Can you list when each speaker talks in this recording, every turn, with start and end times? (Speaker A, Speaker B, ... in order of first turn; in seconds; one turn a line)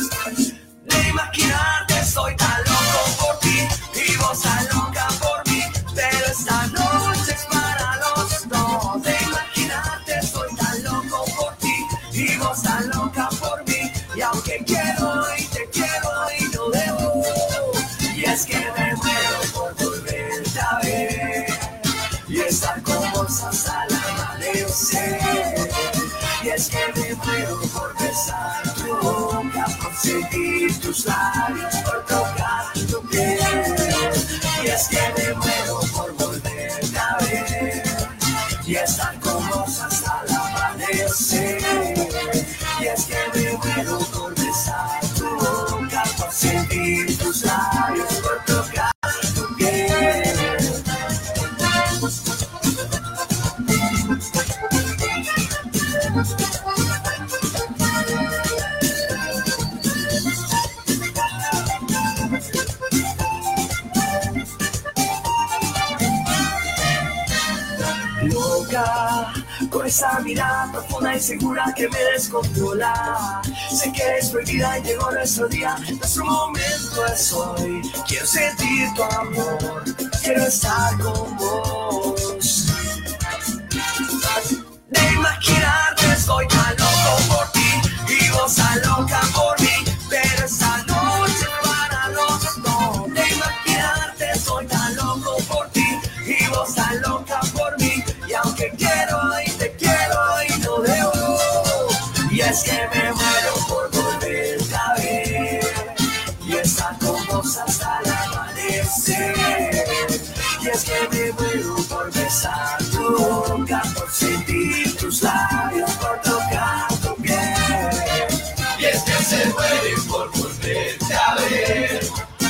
Speaker A: 0.8-51.0
Speaker A: 68.2-83.0
Speaker A: 84.9-122.2